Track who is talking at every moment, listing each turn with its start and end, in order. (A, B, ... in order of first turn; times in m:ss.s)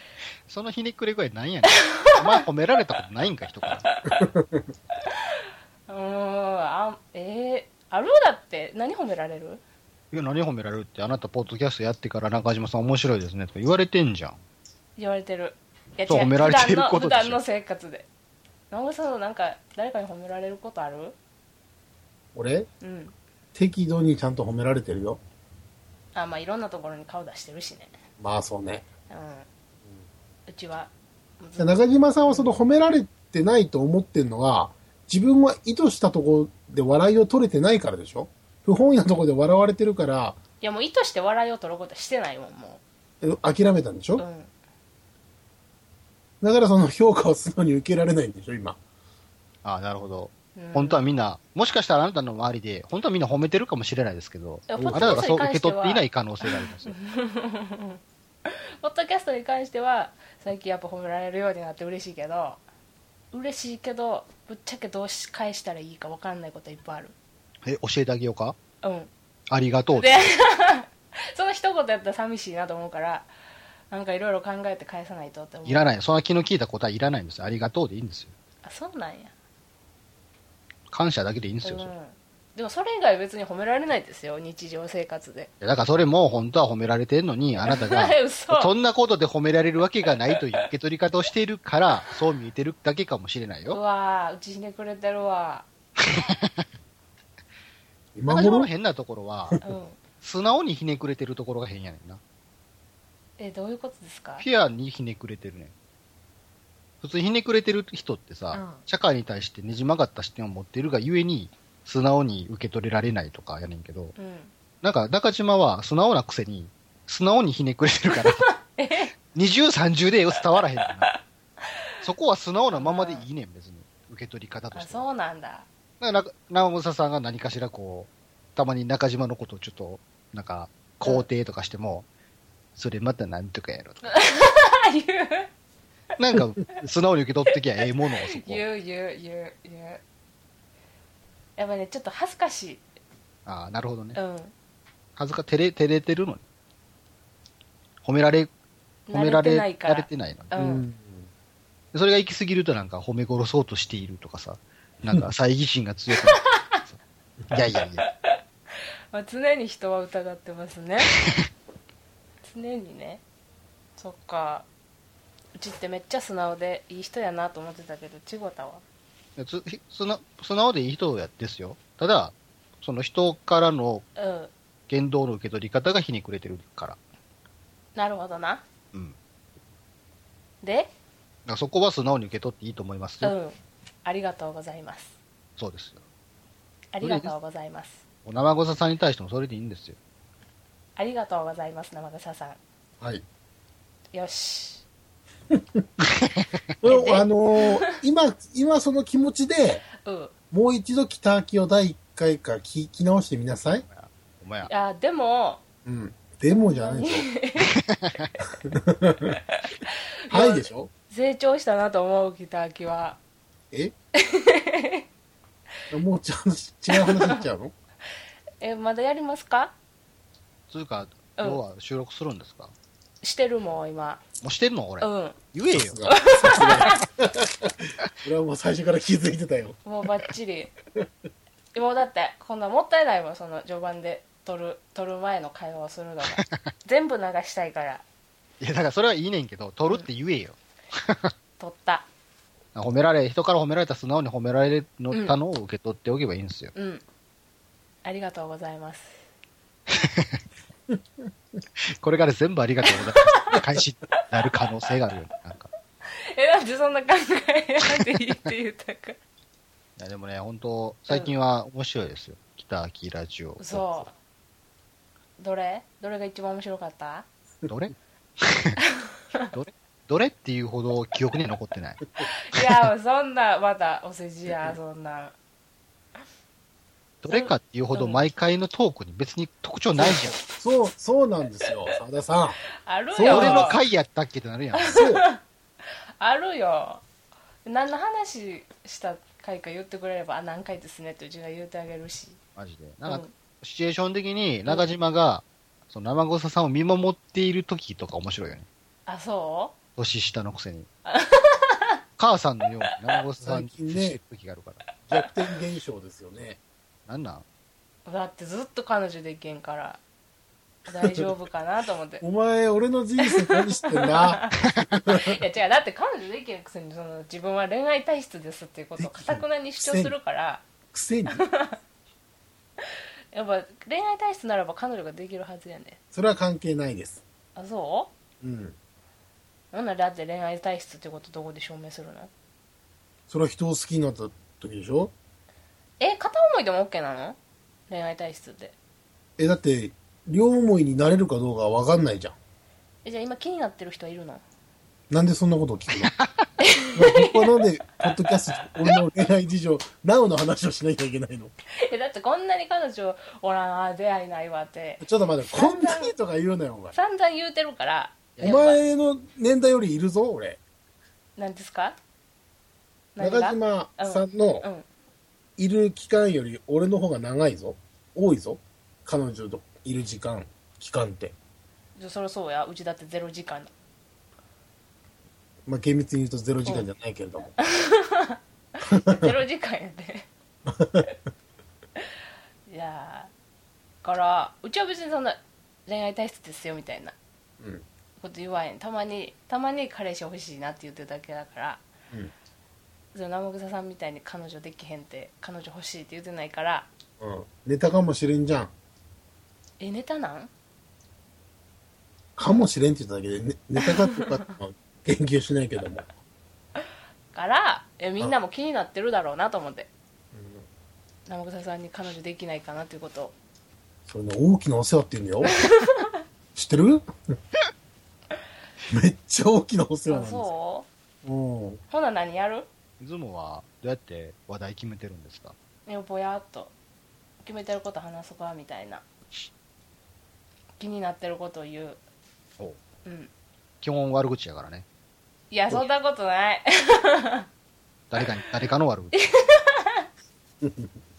0:00.5-0:03.9 A
0:01.8-0:02.4 B
0:03.9-0:04.2 B
0:04.2-0:04.6 C
0:05.9-0:09.6 B
0:10.1-0:14.4 A
0:15.0-0:18.1 B
0:16.1-0:17.4 A
0:18.7-0:21.2 B
0:22.4-0:22.7 C
0:22.8-0:23.1 B
0:23.6-0:25.2 C
0:26.1-0:27.9 B
0:28.2-0:28.9 C
0:29.1-0:29.5 B
0:30.5-0:32.5 B
0:31.6-0:40.4 C
0:40.6-0:42.8 B
0:43.2-0:44.2 C
0:44.2-0:44.5 B
0:46.4-0:48.8 C
0:49.6-0:57.0 A
0:50.6-0:51.0 B
0:54.7-1:02.6 B
0:54.8-0:55.3 C
1:03.3-1:07.2 B
1:07.6-1:08.6 A
1:08.8-1:09.1 B
1:09.5-1:10.3 A
1:10.0-1:13.3 B
1:13.9-1:15.8 B
1:15.6-1:18.3 A
1:18.6-1:19.3 B
1:20.9-1:21.9 A
1:21.6-1:25.5 B
1:25.6-1:33.8 A
1:27.7-1:28.7 B
1:33.7-1:35.7 B
1:36.1-1:36.6 A
1:38.2-1:38.7 C
1:38.3-1:39.6 A
1:39.6-1:40.0 B
1:40.2-1:42.2 A
1:43.4-1:44.4 B
1:44.4-1:45.7 A
1:47.0-1:54.2 A
1:48.5-1:48.8 B
1:54.2-1:54.5 B
1:54.8-1:58.5 A
1:58.2-1:59.1 B
1:59.3-2:01.1 A
2:02.0-2:05.1 A
2:02.7-2:03.2 B
2:04.7-2:05.7 B
2:06.0-2:12.1 A
2:12.8-2:14.1 A
2:14.1-2:15.5 B
2:16.2-2:18.6 A
2:18.3-2:20.0 B
2:21.6-2:22.8 B
2:23.5-2:24.2 A
2:24.2-2:24.5 B
2:25.2-2:26.4 A
2:28.0-2:28.5 A
2:29.1-2:30.9 B
2:29.1-2:30.5 A
2:30.5-2:31.3 C
2:31.9-2:37.0 A
2:37.5-2:38.1 A
2:39.1-2:41.1 B
2:42.4-2:43.2 B
2:44.0-2:44.7 B
2:45.6-2:48.8 B
2:49.4-2:54.1 A
2:54.2-2:54.5 B
2:54.9-2:57.0 A
2:58.0-2:58.6 B
3:00.6-3:00.9 B
3:01.5-3:03.4 A
3:03.2-3:05.2 B
3:05.6-3:06.0 A
3:06.9-3:08.0 B
3:07.0-3:07.3 A
3:08.2-3:10.0 A
3:11.0-3:12.6 B
3:14.1-3:14.8 B
3:15.5-3:16.0 C
3:16.2-3:16.5 A
3:16.8-3:19.9 C
3:16.9-3:18.0 B
3:20.0-3:20.3 B
3:20.5-3:23.8 C
3:23.9-3:24.7 A
3:24.7-3:25.6 B
3:25.8-3:27.3 C
3:26.5-3:27.8 B
3:27.9-3:28.3 A
3:28.6-3:29.4 C
3:29.6-3:33.2 B
3:30.3-3:30.9 C
3:34.2-3:35.1 B
3:35.9-3:37.7 C
3:36.9-3:37.4 B
3:38.6-3:39.7 B
3:40.7-3:42.7 A
3:43.2-3:44.2 B
3:44.4-3:46.1 A
3:45.0-3:45.4 B
3:45.7-3:49.8 C
3:46.1-3:47.1 B
3:49.8-3:50.7 B
3:51.7-3:58.0 B
3:58.6-4:01.3 A
4:01.6-4:02.1 B
4:02.8-4:06.7 A
4:05.1-4:05.4 B
4:06.8-4:07.0 B
4:08.0-4:09.2 B
4:09.9-4:10.4 A
4:11.8-4:15.7 A
4:13.1-4:13.6 B
4:16.1-4:19.2 B
4:20.0-4:24.1 A
4:23.6-4:24.1 B
4:25.4-4:27.3 B
4:27.7-4:28.8 A
4:29.5-4:32.8 A
4:32.2-4:35.4 B
4:37.2-4:40.4 A
4:37.3-4:38.2 B
4:40.0-4:42.6 C
4:42.8-4:43.8 B
4:43.1-4:43.8 C
4:43.3-4:45.0 A
4:44.8-4:45.4 B
4:44.9-4:45.2 C
4:46.2-4:47.0 B
4:47.6-4:52.4 B
4:52.6-4:58.7 A
4:53.1-4:53.3 B
4:59.1-4:59.8 B
5:00.0-5:00.9 A
5:01.1-5:02.0 B
5:02.2-5:04.8 A
5:03.4-5:04.2 C
5:05.1-5:06.6 C
5:07.1-5:07.4 A
5:08.1-5:10.0 B
5:10.9-5:12.2 B
5:12.2-5:14.4 C
5:13.2-5:20.6 B
5:15.1-5:15.3 C
5:19.0-5:20.2 C
5:20.9-5:21.4 C
5:21.3-5:21.8 B
5:23.3-5:26.0 B
5:26.1-5:27.2 C
5:27.6-5:28.1 B
5:28.4-5:28.8 C
5:29.7-5:32.3 B
5:33.3-5:35.1 C
5:36.0-5:38.8 B
5:39.4-5:42.4 C
5:43.0-5:44.4 B
5:45.1-5:46.1 C
5:46.0-5:46.4 A
5:46.6-5:47.6 B
5:47.0-5:51.5 C
5:51.8-5:56.1 B
5:55.0-5:57.0 C
5:56.9-5:58.8 B
5:58.4-5:58.7 A
5:58.4-6:00.6 C
6:01.4-6:02.0 B
6:03.2-6:04.9 B
6:03.2-6:04.7 C
6:05.6-6:11.4 C
6:12.0-6:13.7 B
6:15.7-6:17.5 C
6:17.6-6:20.3 B
6:18.9-6:19.3 C
6:20.7-6:21.1 C
6:22.7-6:23.3 B
6:24.0-6:27.2 B
6:27.6-6:27.8 C
6:28.2-6:31.8 B
6:33.1-6:36.9 B
6:37.2-6:38.7 C
6:39.8-6:40.5 B
6:42.4-6:46.1 C
6:43.8-6:44.5 B
6:47.3-6:49.9 B
6:50.3-6:50.7 C
6:51.3-6:53.4 B
6:54.1-6:55.5 C
6:55.6-6:56.2 B
6:56.6-6:57.1 C
6:58.9-7:00.5 C
7:00.1-7:00.9 B
7:01.2-7:01.8 C
7:01.9-7:02.7 B
7:03.0-7:05.6 A
7:05.9-7:06.7 B
7:07.4-7:09.0 B
7:10.8-7:12.0 B
7:13.0-7:13.3 B
7:13.8-7:14.8 A
7:15.5-7:17.5 B
7:18.1-7:19.2 A
7:19.2-7:20.1 B
7:20.6-7:21.0 C